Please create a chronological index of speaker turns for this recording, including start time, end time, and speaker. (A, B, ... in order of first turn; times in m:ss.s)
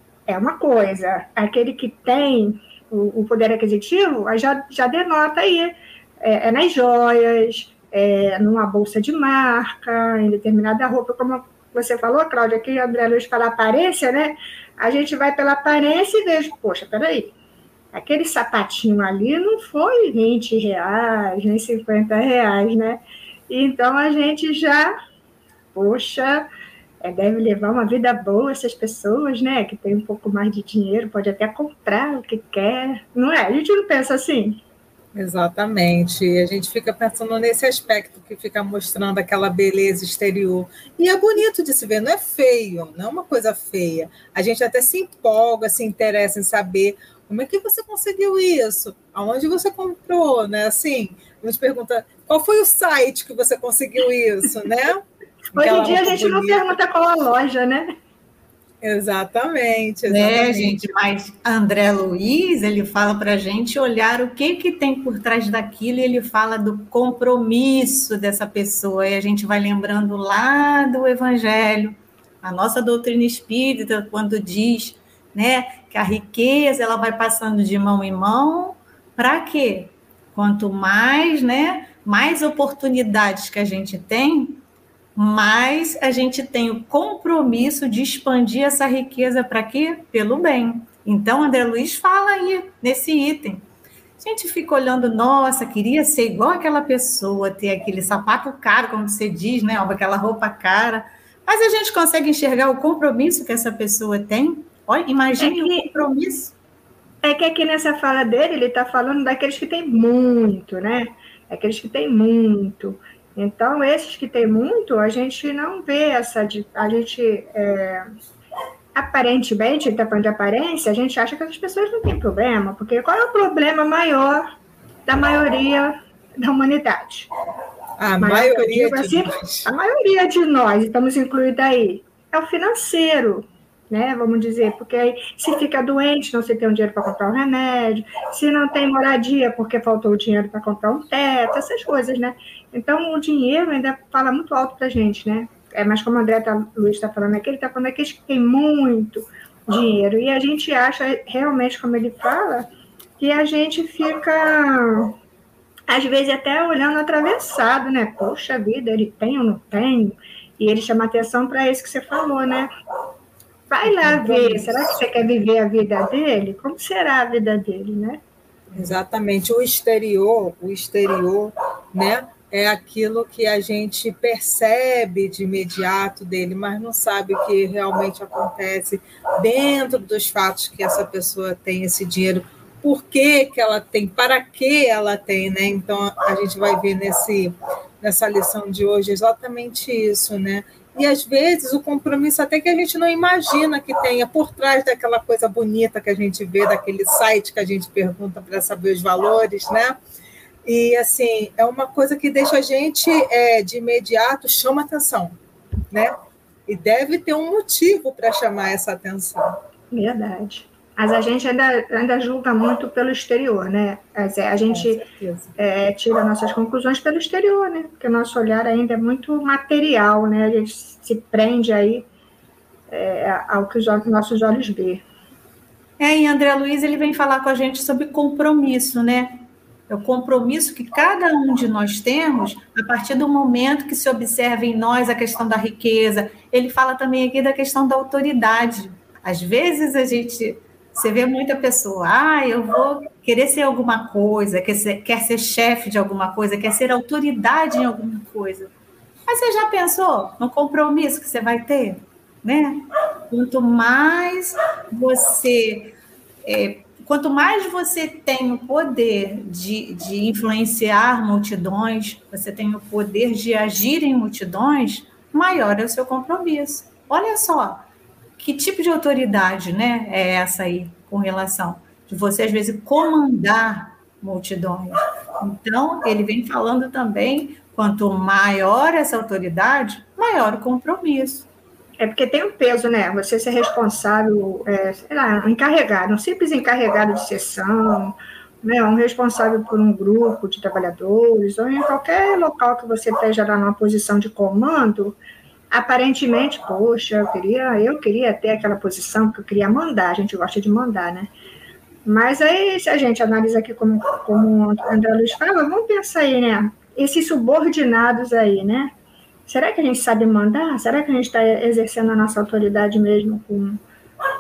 0:00.3-0:17.3 A
0:17.9-0:24.9 A
0:25.7-0:26.5 A
0:27.0-0:34.6 A
0:35.1-0:56.8 B
0:55.5-0:57.9 A
0:58.8-1:00.9 B
1:00.0-1:24.6 C
1:25.2-1:33.6 C
1:34.2-1:46.5 C
1:45.4-1:46.0 A
1:47.2-1:58.1 A
1:59.0-2:04.5 A
2:05.1-2:07.3 A
2:08.0-2:09.7 B
2:08.2-2:32.7 A
2:33.2-2:35.2 A
2:35.9-2:42.7 A
2:43.7-2:48.2 A
2:43.8-2:45.0 B
2:48.7-3:20.0 B
3:20.6-3:25.4 B
3:26.7-3:29.6 B
3:29.9-3:35.0 A
3:34.7-3:35.5 B
3:35.6-3:42.1 A
3:42.9-3:45.0 A
3:46.0-4:08.7 C
4:09.3-4:27.8 C
4:28.4-4:41.5 C
4:42.0-4:55.2 A
4:55.7-5:01.3 A
5:02.1-5:08.9 A
5:09.5-5:13.8 A